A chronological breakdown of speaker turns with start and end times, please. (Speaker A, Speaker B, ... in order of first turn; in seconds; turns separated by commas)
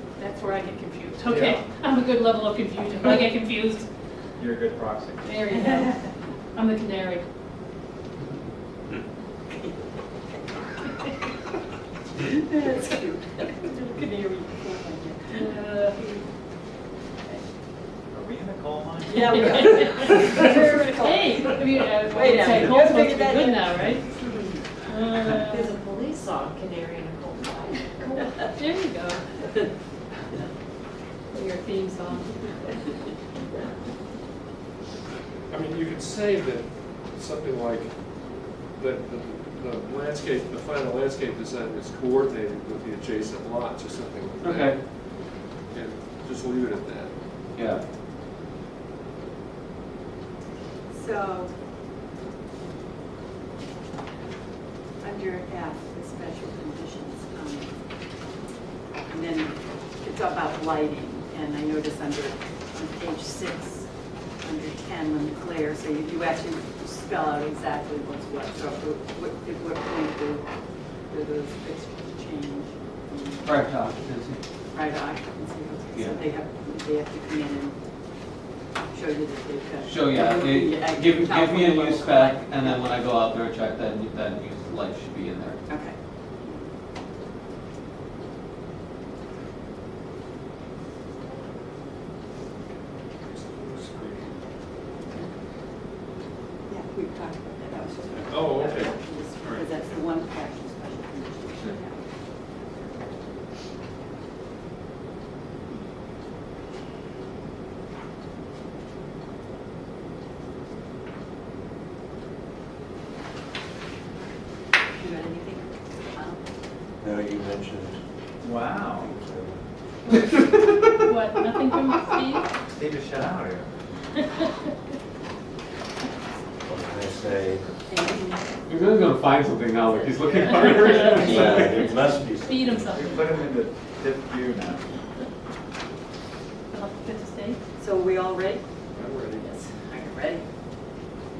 Speaker A: 0.2-3.9, Speaker B: 1.3-1.6, Speaker C: 4.4-5.3, Speaker A: 5.2-7.3, Speaker D: 5.5-5.9, Speaker D: 12.2-16.2, Speaker A: 15.3-16.1, Speaker C: 18.1-19.1, Speaker D: 19.1-24.6, Speaker A: 19.1-24.2, Speaker A: 24.8-25.7, Speaker E: 25.4-28.1, Speaker A: 28.5-29.4, Speaker A: 31.3-32.9, Speaker B: 35.5-45.0, Speaker F: 44.4-44.8, Speaker B: 45.7-47.1, Speaker F: 47.5-47.8, Speaker D: 50.9-51.5, Speaker D: 55.0-57.7, Speaker D: 59.0-70.5, Speaker D: 71.1-73.5, Speaker F: 73.4-74.4, Speaker D: 74.7-77.8, Speaker F: 75.9-76.2, Speaker D: 78.9-83.0, Speaker F: 79.8-85.6, Speaker D: 85.7-86.6, Speaker B: 92.7-94.4, Speaker D: 96.7-102.7, Speaker B: 98.3-100.0, Speaker D: 115.0-116.5, Speaker G: 117.0-118.0, Speaker C: 118.4-119.1, Speaker G: 119.1-119.6, Speaker A: 120.3-122.5, Speaker C: 122.7-123.7, Speaker G: 126.7-127.7, Speaker D: 127.9-128.4, Speaker F: 128.7-132.0, Speaker A: 130.8-133.4, Speaker G: 131.1-132.9, Speaker C: 132.9-134.8, Speaker A: 136.7-137.6, Speaker D: 137.8-138.6, Speaker B: 138.9-139.5, Speaker D: 139.4-140.4